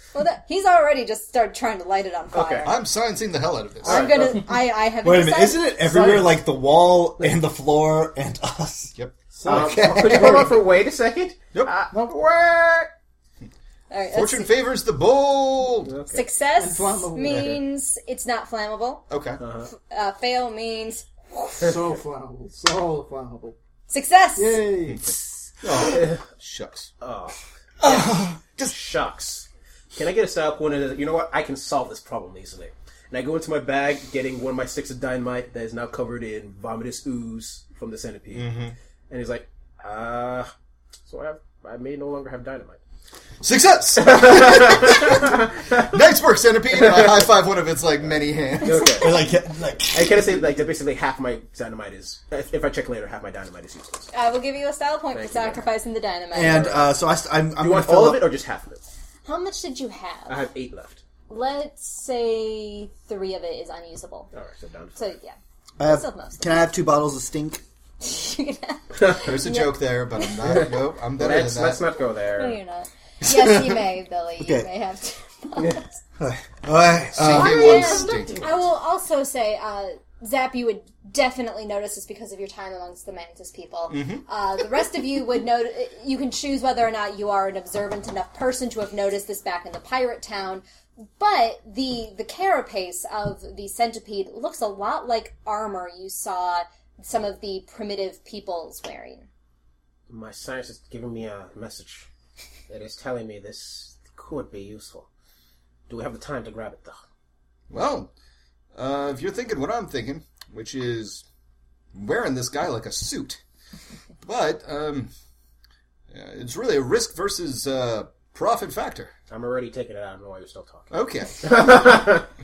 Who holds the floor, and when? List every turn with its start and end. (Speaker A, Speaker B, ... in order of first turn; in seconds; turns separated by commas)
Speaker A: 0.1-2.8, Speaker B: 2.3-2.7, Speaker C: 2.6-4.2, Speaker A: 3.8-5.7, Speaker B: 3.8-4.4, Speaker D: 5.0-10.6, Speaker E: 5.8-6.4, Speaker E: 9.3-10.3, Speaker B: 9.4-12.9, Speaker E: 11.9-12.2, Speaker A: 13.9-14.5, Speaker C: 14.1-16.0, Speaker B: 15.8-16.2, Speaker A: 16.1-19.0, Speaker E: 16.6-17.6, Speaker B: 17.3-17.5, Speaker C: 19.1-19.4, Speaker B: 19.4-19.7, Speaker A: 19.7-21.1, Speaker E: 21.5-23.6, Speaker A: 23.9-24.6, Speaker E: 24.4-25.1, Speaker C: 24.9-26.9, Speaker B: 25.9-26.1, Speaker B: 27.0-38.5, Speaker D: 27.8-28.7, Speaker C: 38.3-38.7, Speaker B: 39.1-40.5, Speaker B: 41.1-42.8, Speaker C: 43.4-49.0, Speaker B: 44.0-45.3, Speaker B: 46.8-47.2, Speaker B: 48.6-49.2, Speaker D: 48.9-50.3, Speaker B: 49.9-54.1, Speaker A: 54.1-56.7, Speaker B: 55.1-55.6, Speaker D: 56.3-58.3, Speaker B: 56.4-56.9, Speaker B: 57.6-58.8, Speaker A: 59.2-60.4, Speaker B: 60.3-61.0, Speaker A: 61.3-64.3, Speaker B: 64.3-65.0, Speaker A: 65.0-66.7, Speaker D: 65.8-67.6, Speaker A: 68.0-70.6, Speaker C: 69.1-71.8, Speaker B: 70.4-72.6, Speaker A: 72.3-75.9, Speaker C: 73.2-73.8, Speaker D: 74.4-74.7, Speaker D: 76.2-78.0, Speaker C: 77.1-78.3, Speaker A: 77.3-90.6, Speaker B: 77.3-78.5, Speaker C: 83.9-84.2, Speaker A: 91.2-99.3, Speaker B: 100.1-102.1, Speaker B: 102.7-105.1, Speaker B: 105.9-107.0, Speaker C: 107.7-108.1, Speaker C: 108.7-111.2, Speaker C: 111.9-113.4, Speaker C: 114.2-115.1, Speaker C: 116.1-119.1, Speaker B: 119.3-122.2, Speaker C: 120.9-121.8